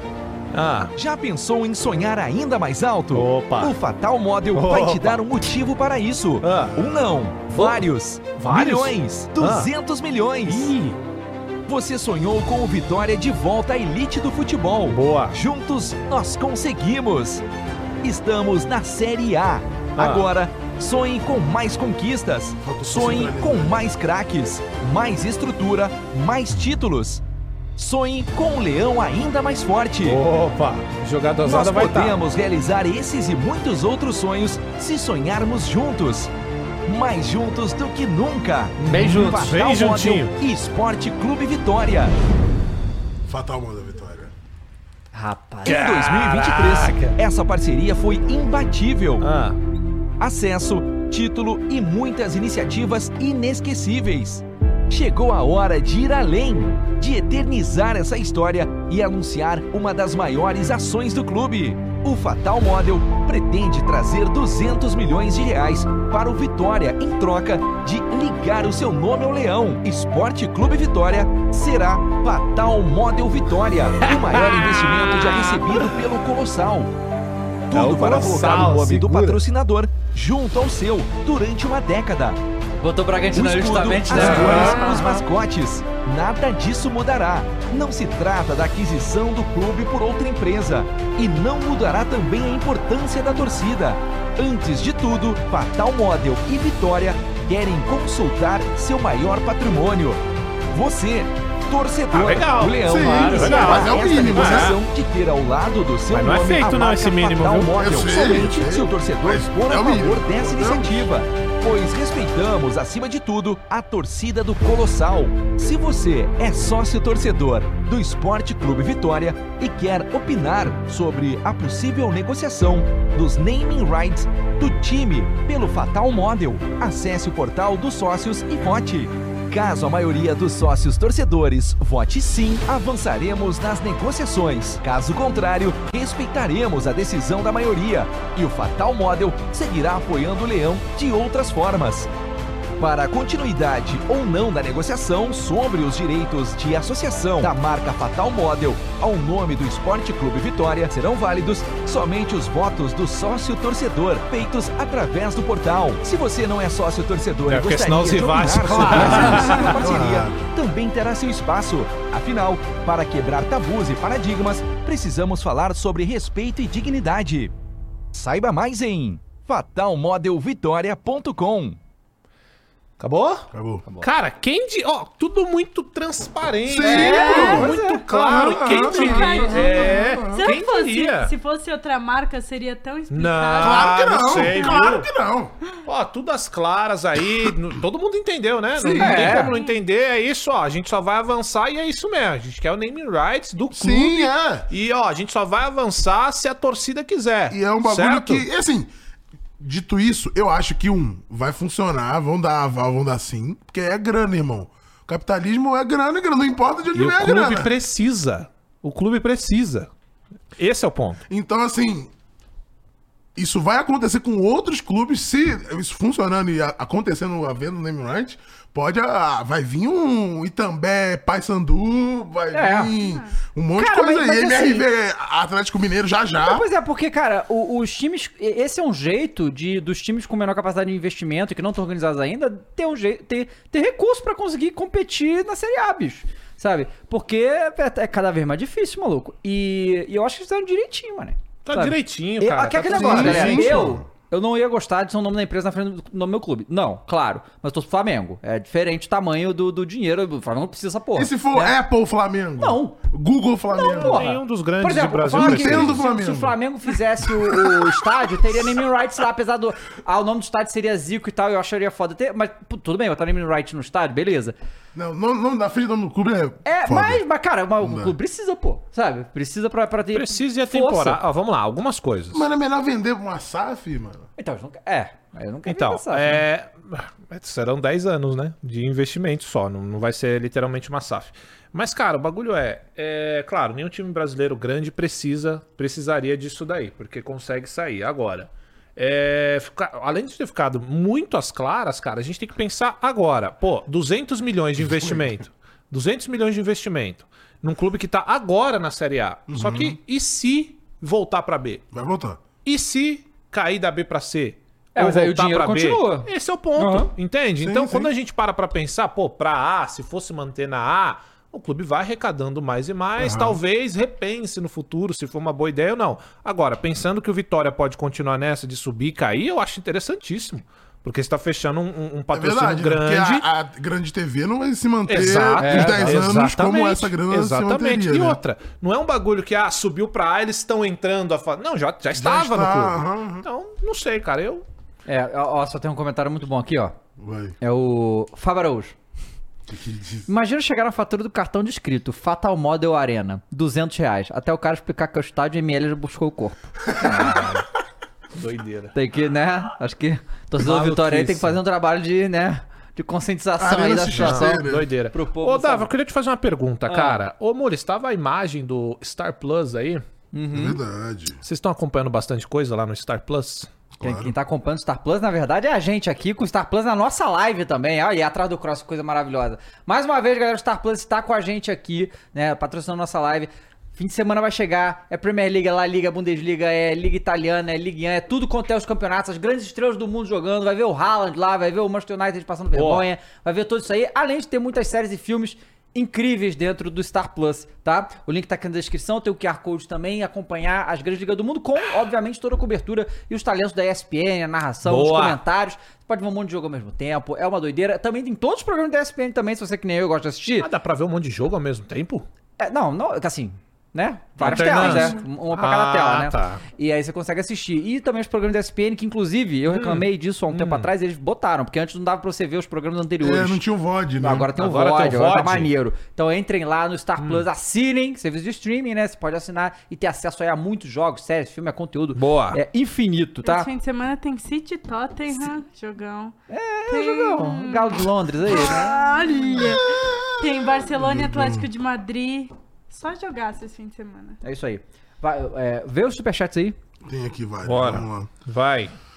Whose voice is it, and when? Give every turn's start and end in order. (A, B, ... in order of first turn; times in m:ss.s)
0:00.5-0:00.9 A
0:01.0-0:10.7 B
0:03.1-0:03.8 A
0:04.5-0:05.2 A
0:06.4-0:06.9 A
0:07.5-0:07.8 A
0:08.4-0:09.7 A
0:10.5-0:11.0 A
0:11.6-0:17.4 B
0:14.9-0:15.4 A
0:18.0-0:27.2 B
0:20.0-0:20.2 A
0:22.6-0:23.8 C
0:27.8-0:30.2 B
0:30.0-0:32.2 A
0:31.4-0:36.3 B
0:36.8-0:42.1 B
0:38.8-0:40.3 A
0:43.3-0:44.3 C
0:45.1-0:45.8 D
0:45.6-0:47.2 A
0:45.6-0:49.3 B
0:49.2-0:49.6 A
0:50.2-1:16.9 B
1:14.0-1:16.0 A
1:17.7-1:22.4 B
1:17.7-1:19.4 A
1:22.8-1:24.9 D
1:23.3-2:22.1 B
1:24.1-1:25.0 A
1:42.1-1:44.8 A
1:42.8-1:44.8 C
1:46.1-1:48.0 A
1:47.8-1:51.0 C
2:22.8-2:47.5 B
2:37.5-2:40.1 A
2:38.8-2:40.4 C
2:48.1-2:51.8 B
2:53.0-3:01.3 A
2:53.5-2:53.8 C
2:56.6-3:00.5 C
2:56.8-2:58.1 D
2:56.9-2:57.7 E
2:58.8-3:04.8 E
3:03.1-3:05.1 A
3:03.6-3:05.5 C
3:05.8-3:18.4 A
3:08.8-3:09.5 C
3:08.9-3:09.5 D
3:13.7-3:14.6 C
3:17.5-3:18.9 C
3:19.6-3:27.7 C
3:26.9-3:29.9 A
3:30.6-3:31.2 A
3:31.3-3:32.1 C
3:33.4-3:46.6 C
3:42.5-3:42.9 D
3:43.0-3:43.4 E
3:43.8-3:44.8 D
3:46.4-4:11.8 D
4:01.6-4:03.8 A
4:02.9-4:04.1 C
4:11.1-4:14.3 C
4:12.6-4:13.0 D
4:13.7-4:24.6 D
4:14.0-4:16.0 A
4:15.3-4:16.6 C
4:17.2-4:18.0 C
4:24.9-4:27.2 C
4:26.6-4:31.2 D
4:27.8-4:28.1 C
4:30.1-4:32.4 A
4:32.3-4:34.3 C
4:34.4-4:36.4 D
4:35.6-5:01.8 A
4:54.9-4:55.2 C
4:59.5-5:00.0 C
5:01.9-5:02.4 C
5:02.6-5:23.4 A
5:04.9-5:07.1 D
5:07.6-5:08.1 C
5:13.2-5:13.6 C
5:22.3-5:28.4 C
5:25.1-5:34.6 A
5:25.6-5:26.2 D
5:32.2-5:33.4 C
5:35.1-5:37.0 D
5:37.2-5:37.6 C
5:37.6-5:38.9 D
5:39.7-5:40.3 C
5:40.3-5:47.6 D
5:46.9-5:47.5 C
5:47.2-5:47.6 A
5:48.3-5:48.9 A
5:48.9-5:55.9 D
5:50.6-5:51.6 A
5:53.6-5:54.9 C
5:54.1-6:00.0 A
5:56.9-5:57.2 D
6:00.3-6:00.8 D
6:00.5-6:01.4 C
6:01.4-6:03.7 A
6:04.0-6:04.3 C
6:04.0-6:40.7 D
6:22.7-6:23.0 A
6:34.8-6:35.4 A
6:40.6-6:42.2 A
6:42.6-6:53.6 D
6:44.4-6:46.6 A
6:49.7-6:50.9 A
6:53.2-6:54.5 C
6:54.2-7:03.7 D
6:54.6-6:55.7 A
6:57.2-6:57.5 A
7:02.1-7:02.6 A
7:03.4-7:06.3 E
7:06.5-7:09.5 D
7:06.9-7:14.4 E
7:09.6-7:11.7 C
7:14.4-7:16.8 D
7:17.0-7:18.3 C
7:17.6-7:18.9 A